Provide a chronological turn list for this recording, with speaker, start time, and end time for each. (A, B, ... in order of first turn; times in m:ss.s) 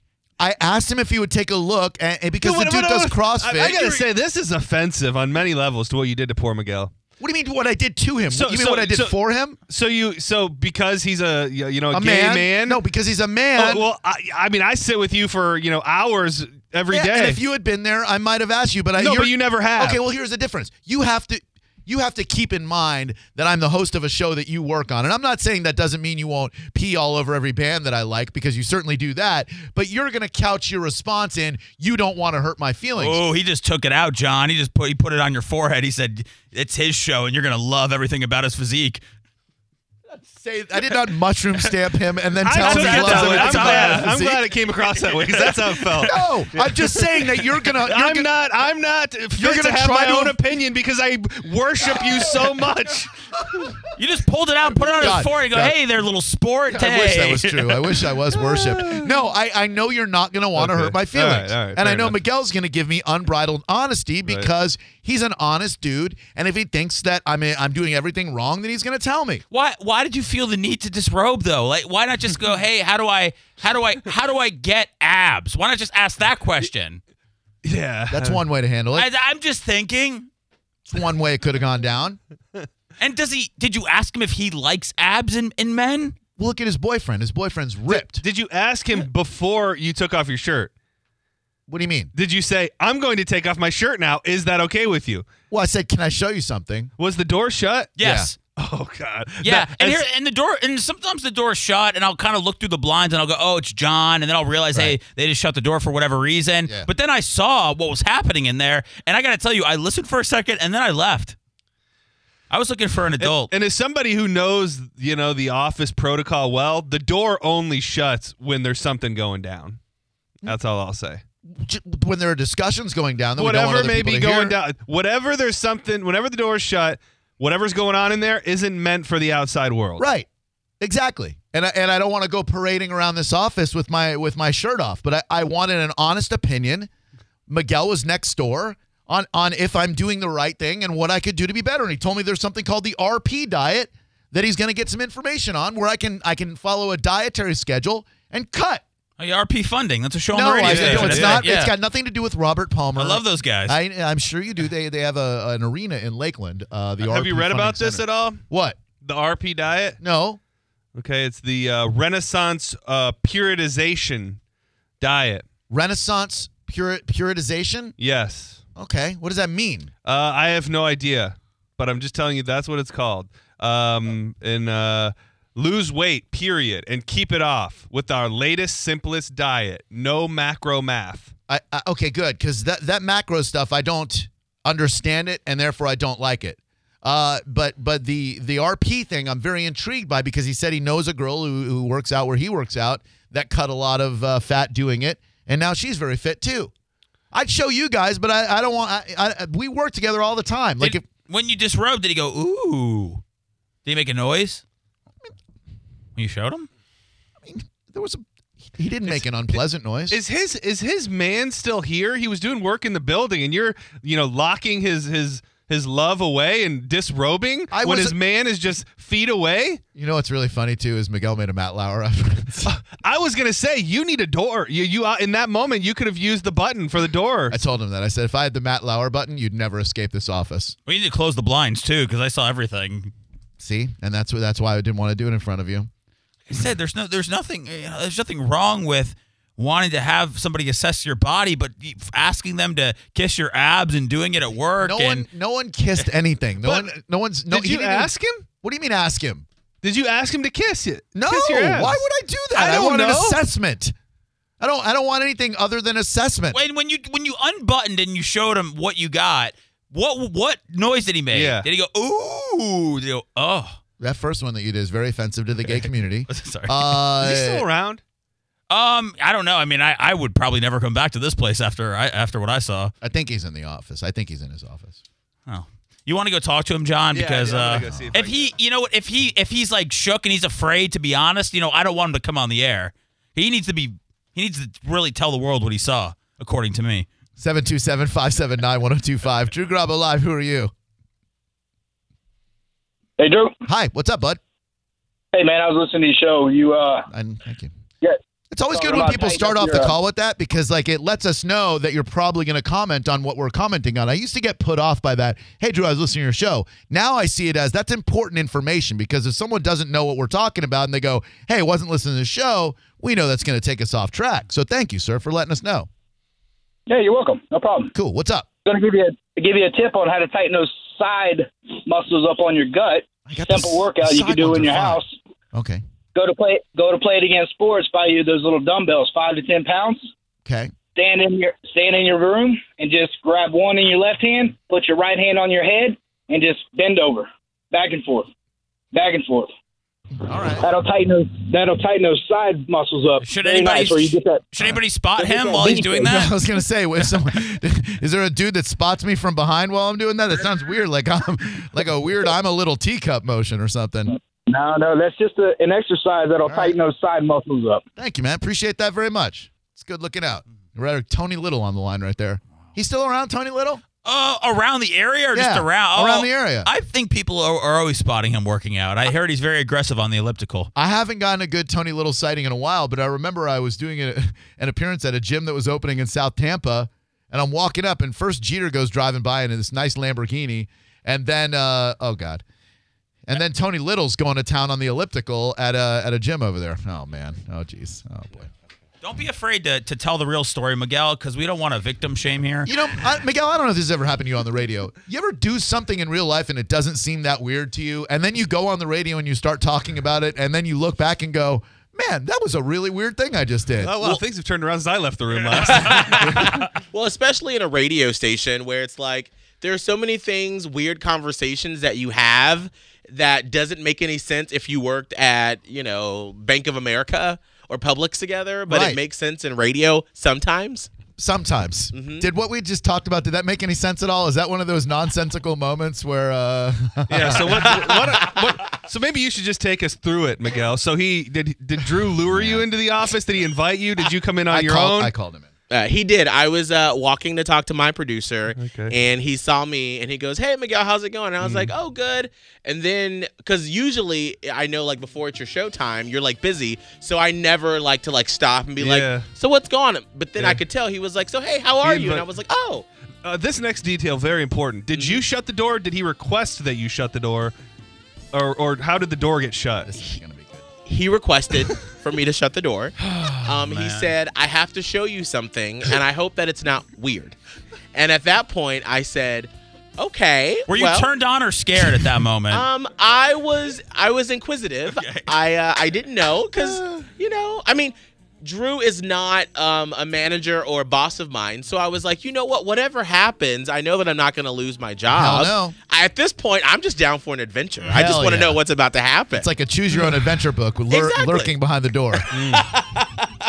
0:00.4-0:04.1 A
0:02.4-0:06.9 B
0:07.2-0:09.6 A
0:08.3-0:09.2 B
0:09.7-0:12.8 B
0:11.9-0:13.9 A
0:13.6-0:17.4 B
0:16.9-0:33.2 A
0:19.0-0:20.0 B
0:33.0-0:39.0 C
0:40.1-0:44.3 A
0:42.4-0:53.7 B
0:42.5-0:46.1 C
0:46.0-0:48.3 A
0:49.4-0:50.4 A
0:53.9-0:58.0 C
0:55.0-0:55.8 A
0:56.7-1:09.4 A
0:58.3-0:59.1 B
1:00.6-1:02.2 B
1:09.5-1:17.0 C
1:17.6-1:18.4 B
1:18.1-1:19.1 A
1:18.9-1:20.3 C
1:20.9-1:22.2 A
1:23.0-1:26.2 C
1:26.4-1:28.2 A
1:27.9-1:30.7 B
1:31.7-1:32.1 A
1:32.1-1:35.2 B
1:35.5-1:36.9 A
1:37.0-1:40.0 B
1:38.0-1:38.4 C
1:38.0-1:38.3 A
1:39.4-1:51.4 C
1:52.5-1:53.5 C
1:53.2-1:59.8 B
2:00.4-2:01.2 B
2:01.5-2:04.6 A
2:03.4-2:10.0 B
2:10.0-2:10.3 A
2:10.8-2:16.9 A
2:17.5-2:28.8 A
2:29.2-2:31.7 C
2:30.3-2:38.8 A
2:30.6-2:31.4 B
2:33.0-2:33.8 C
2:37.0-2:38.4 B
2:38.9-2:40.0 B
2:40.0-2:40.4 A
2:40.9-2:44.4 B
2:45.0-2:45.5 B
2:45.7-2:48.0 A
2:48.0-2:48.6 B
2:48.8-2:49.9 A
2:50.0-3:01.3 B
3:01.5-3:16.7 A
3:17.3-3:21.0 A
3:20.8-3:23.2 C
3:23.9-3:24.6 C
3:26.2-3:26.7 C
3:27.4-3:28.2 A
3:28.8-3:30.2 A
3:30.1-3:39.8 B
3:37.7-3:38.2 A
3:40.0-3:42.7 A
3:42.6-3:47.6 B
3:47.5-3:50.8 A
3:50.9-3:53.1 C
3:53.6-3:55.9 A
3:56.5-4:05.2 C
4:04.8-4:09.5 A
4:07.5-4:08.4 B
4:09.8-4:12.0 B
4:11.2-4:13.9 A
4:12.6-4:13.4 B
4:14.6-4:16.6 A
4:16.5-4:23.8 C
4:21.3-4:21.7 B
4:24.0-4:27.7 A
4:26.3-4:26.8 C
4:27.2-4:28.0 B
4:28.7-4:32.9 C
4:33.0-4:35.0 A
4:35.5-4:47.1 C
4:37.1-4:38.5 B
4:47.4-4:50.7 A
4:53.2-4:53.5 D
4:53.7-4:54.4 A
4:55.3-4:57.1 D
4:57.1-4:57.7 A
4:58.5-5:15.9 A
4:58.7-4:59.9 D
5:16.9-5:17.9 D
5:17.9-5:18.5 A
5:18.7-5:25.1 D
5:23.3-5:25.0 A
5:25.5-5:25.8 A
5:26.2-5:30.1 D
5:30.4-5:30.7 A
5:31.0-5:38.3 D
5:38.9-5:39.5 D
5:40.2-5:40.7 A
5:40.6-5:44.4 D
5:43.2-5:46.4 C
5:45.2-5:46.1 D
5:46.0-5:54.2 A
5:54.1-5:57.8 D
5:56.4-5:56.8 A
5:58.0-6:03.8 A
6:04.0-6:10.7 C
6:05.3-6:06.7 A
6:10.8-6:22.4 A
6:23.3-6:28.5 A
6:29.0-6:32.7 C
6:32.7-6:44.2 A
6:43.8-6:46.5 B
6:45.6-7:00.9 E
6:58.7-6:59.0 A
7:01.2-7:08.2 A
7:01.9-7:02.3 E
7:07.1-7:15.1 B
7:12.3-7:12.7 A
7:14.5-7:15.5 A
7:15.7-7:32.8 E
7:18.6-7:19.0 B
7:21.4-7:21.7 B
7:28.8-7:29.3 B
7:31.8-7:32.3 B
7:33.2-7:37.5 B
7:34.9-7:35.2 E
7:38.3-7:40.0 B
7:39.9-7:40.6 A
7:40.9-7:47.4 E
7:43.2-7:44.1 C
7:47.9-7:51.1 E
7:50.7-7:52.7 C
7:52.5-8:09.5 E
7:54.9-7:55.3 C
8:05.1-8:05.8 A
8:07.9-8:08.6 A
8:09.4-8:12.3 A
8:10.9-8:11.6 E
8:12.1-8:13.3 E
8:12.3-8:12.7 B